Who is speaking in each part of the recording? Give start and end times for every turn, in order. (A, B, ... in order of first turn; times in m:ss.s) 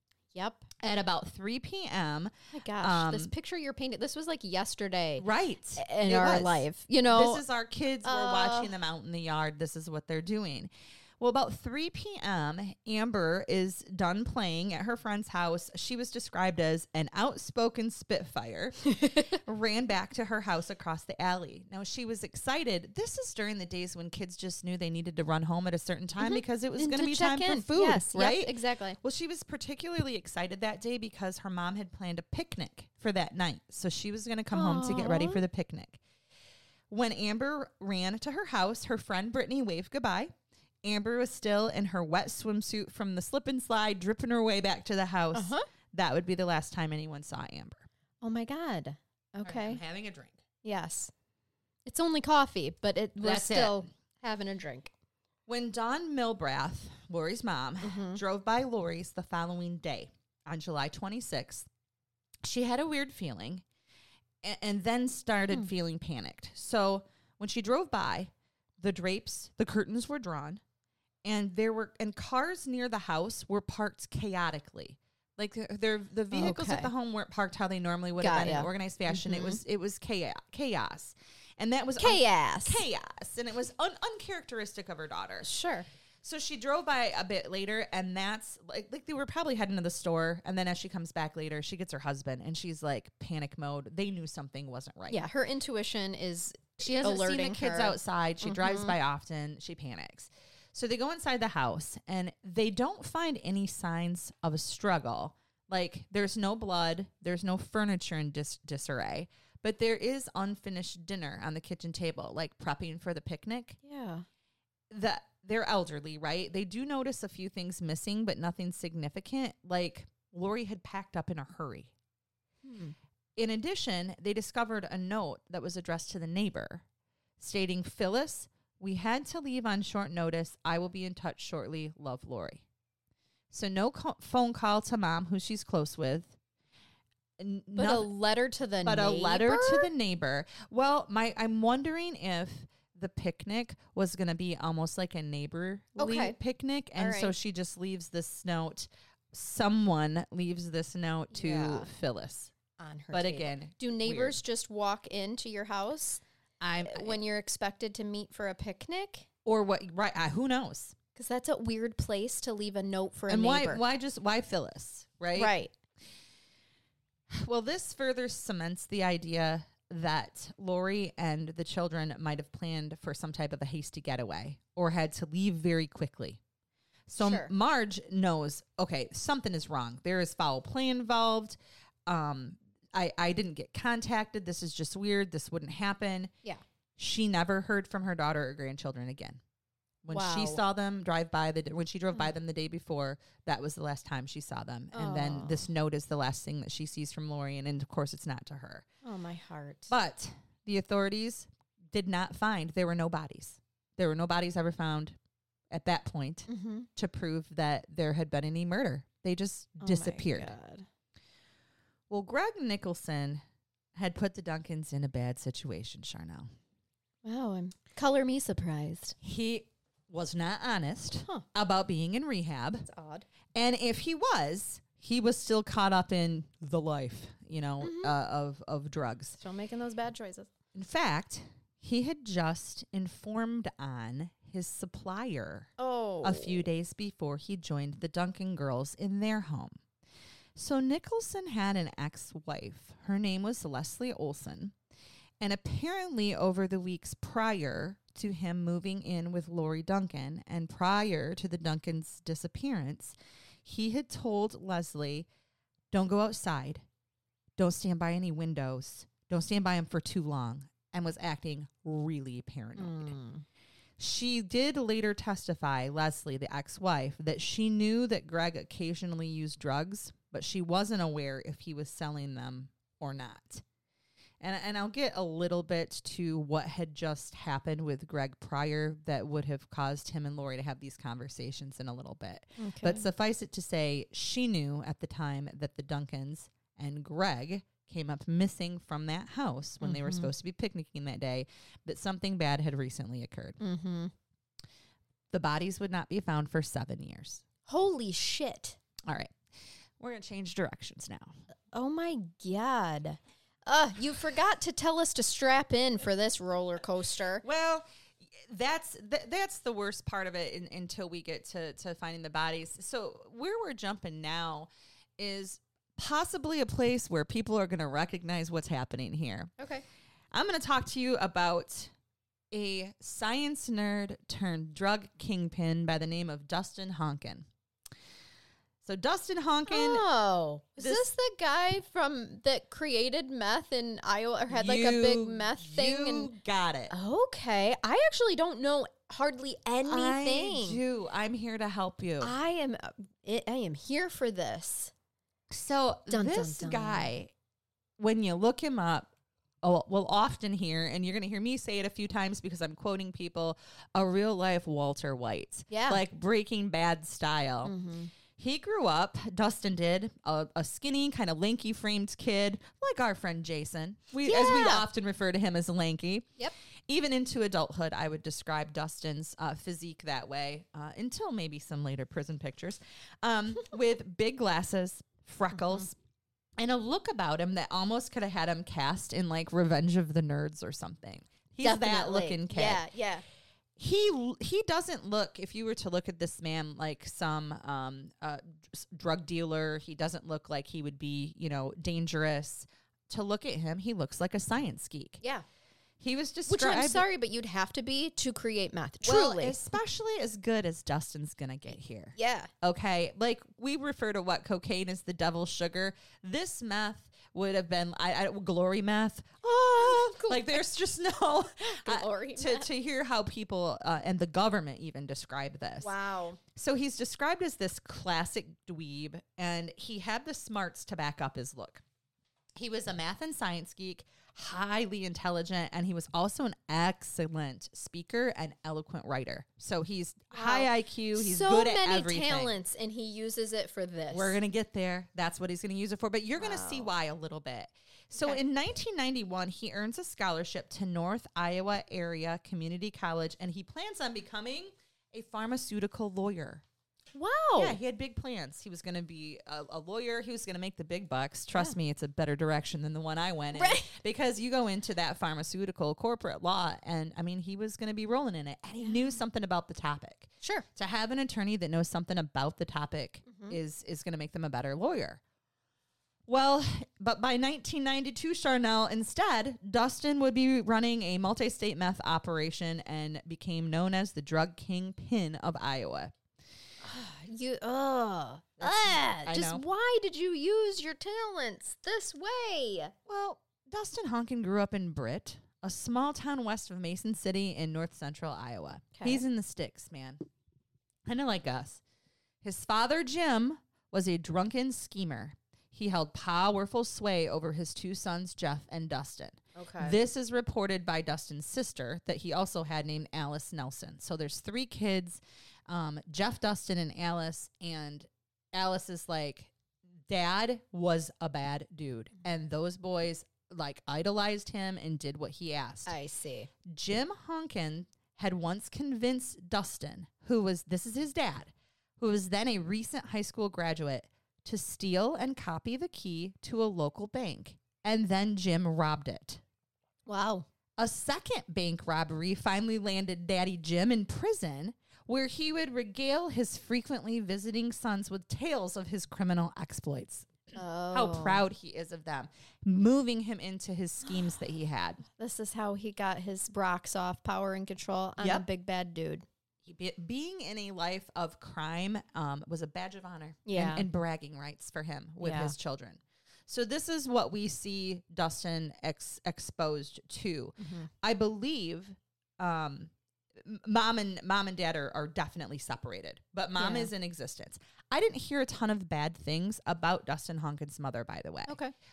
0:00.3-0:00.7 A
0:00.8-0:03.3 B
0:02.5-0:05.2 A
0:05.2-0:18.8 B
0:05.8-0:07.4 A
0:08.0-0:08.7 A
0:18.8-0:19.4 A
0:19.3-0:36.0 B
0:26.2-0:29.0 A
0:34.5-0:35.4 A
0:36.9-0:40.3 B
0:40.8-0:47.9 B
0:45.3-0:45.6 A
0:48.2-0:49.8 A
0:49.4-0:50.4 B
0:50.6-0:51.1 A
0:51.8-0:54.9 A
0:53.2-0:53.8 B
0:55.5-1:01.7 B
0:57.8-0:58.2 A
1:02.4-1:03.6 B
1:04.4-1:10.6 B
1:11.2-1:25.5 B
1:16.3-1:16.9 A
1:18.2-1:19.6 A
1:22.0-1:22.8 A
1:25.4-1:25.9 A
1:26.2-1:35.2 B
1:35.1-1:38.9 A
1:36.8-1:53.8 B
1:53.8-1:54.2 A
1:54.9-2:01.9 B
2:02.6-2:02.9 A
2:03.4-2:06.8 B
2:07.4-2:12.6 B
2:13.5-2:16.3 B
2:17.4-2:18.1 B
2:17.8-2:19.9 A
2:18.8-2:32.5 B
2:26.0-2:26.4 A
2:27.0-2:27.3 A
2:31.3-2:31.9 A
2:32.8-2:36.2 A
2:33.1-2:34.4 B
2:36.6-2:37.2 B
2:36.8-2:39.3 A
2:39.4-2:41.0 B
2:41.1-2:43.8 A
2:43.3-2:45.5 B
2:45.3-2:45.7 A
2:47.3-2:56.4 B
2:57.1-3:06.3 B
2:57.2-2:57.5 A
3:07.0-3:09.4 B
3:10.0-3:18.8 B
3:10.1-3:10.6 A
3:14.9-3:15.7 A
3:19.0-3:19.9 A
3:19.9-3:25.2 B
3:25.7-3:30.5 B
3:26.5-3:26.9 A
3:29.8-3:30.8 A
3:32.1-3:33.4 B
3:33.9-3:36.5 B
3:37.2-3:39.2 A
3:39.2-3:42.9 B
3:42.8-3:43.3 A
3:43.5-3:49.4 B
3:47.8-3:48.1 A
3:49.4-3:50.5 A
3:50.7-3:55.7 B
3:55.8-3:56.7 A
3:56.2-3:59.8 B
4:00.6-4:04.7 B
4:05.4-4:15.3 B
4:15.9-4:16.8 B
4:17.6-4:23.2 B
4:22.8-4:23.4 A
4:24.0-4:33.6 B
4:34.4-4:53.6 B
4:42.6-4:43.1 A
4:49.8-4:50.3 A
4:53.6-4:54.1 A
4:55.3-4:57.4 B
4:57.7-4:58.8 A
4:59.0-4:59.4 B
5:00.0-5:01.3 B
5:01.7-5:07.4 A
5:07.4-5:19.5 B
5:19.6-5:19.8 A
5:20.3-5:21.9 B
5:22.5-5:27.5 B
5:28.8-5:30.0 B
5:29.7-5:36.3 A
5:30.8-5:31.1 B
5:34.5-5:36.9 B
5:36.9-5:40.8 A
5:39.8-5:42.3 B
5:42.2-5:44.9 A
5:45.5-5:47.3 B
5:46.1-5:47.1 A
5:48.0-5:49.1 B
5:49.6-5:57.7 B
5:55.7-5:56.0 A
5:57.6-5:58.1 A
5:58.4-6:06.3 B
6:04.2-6:04.8 A
6:06.9-6:15.9 B
6:15.6-6:15.8 A
6:16.6-6:22.8 B
6:21.6-6:23.2 A
6:23.8-6:35.2 B
6:36.0-6:37.0 B
6:36.5-6:39.6 A
6:39.0-6:55.9 B
6:42.1-6:42.5 A
6:49.8-6:50.6 A
6:51.6-6:52.7 A
6:55.8-6:56.4 A
6:56.5-7:01.8 B
7:02.6-7:12.5 B
7:10.3-7:14.4 A
7:14.1-7:26.6 B
7:16.4-7:16.9 A
7:27.1-7:27.8 A
7:27.6-7:45.2 B
7:33.5-7:33.9 A
7:43.3-7:43.6 A
7:46.3-7:56.1 B
7:56.8-8:02.9 A
7:58.6-7:59.6 B
8:03.1-8:10.2 B
8:08.9-8:09.2 A
8:11.0-8:11.8 B
8:12.4-8:29.5 B
8:19.5-8:20.0 A
8:30.1-8:35.9 B
8:35.8-8:36.5 A
8:36.6-8:49.4 B
8:50.1-8:50.5 A
8:50.8-9:00.3 B
9:00.5-9:01.4 A
9:00.9-9:05.0 B
9:05.2-9:09.2 A
9:08.2-9:08.4 B
9:09.6-9:31.6 B
9:13.4-9:13.9 A
9:15.2-9:15.5 A
9:20.6-9:20.9 A
9:26.6-9:26.9 A
9:31.5-9:31.7 A